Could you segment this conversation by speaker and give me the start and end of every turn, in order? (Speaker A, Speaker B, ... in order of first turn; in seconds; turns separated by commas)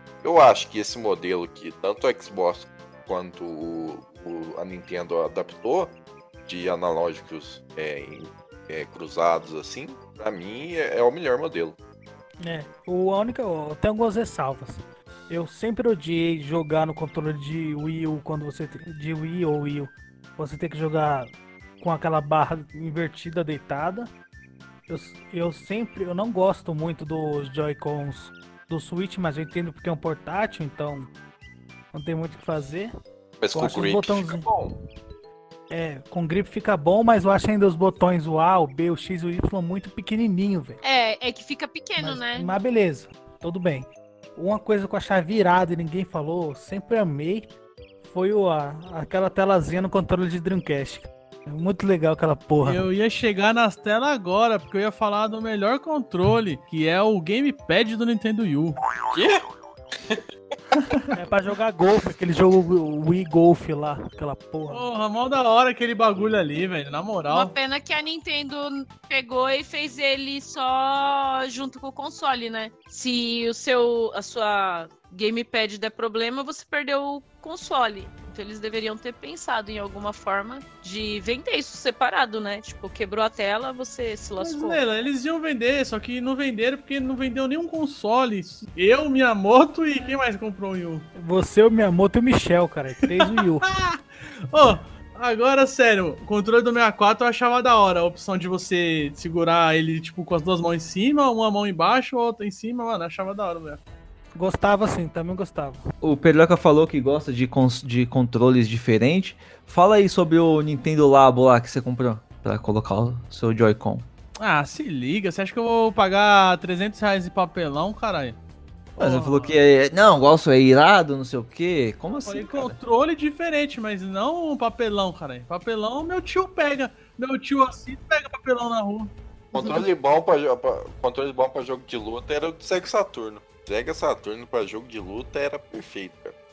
Speaker A: 0.2-11.8, Speaker B: 12.4-24.1, Speaker B: 24.9-31.1, Speaker B: 31.9-32.9, Speaker A: 33.4-34.7, Speaker B: 33.5-34.5, Speaker B: 35.7-40.8, Speaker C: 40.8-42.5, Speaker B: 42.0-52.8, Speaker D: 52.6-58.8, Speaker A: 59.1-59.4, Speaker B: 61.1-64.9, Speaker D: 64.7-67.5, Speaker C: 67.3-84.8, Speaker D: 84.4-91.1, Speaker B: 91.1-93.7, Speaker D: 93.2-103.8, Speaker B: 104.3-105.8, Speaker E: 106.0-114.1, Speaker D: 114.4-118.4, Speaker D: 119.0-119.6, Speaker E: 119.0-122.8, Speaker D: 122.2-129.1, Speaker A: 129.5-136.3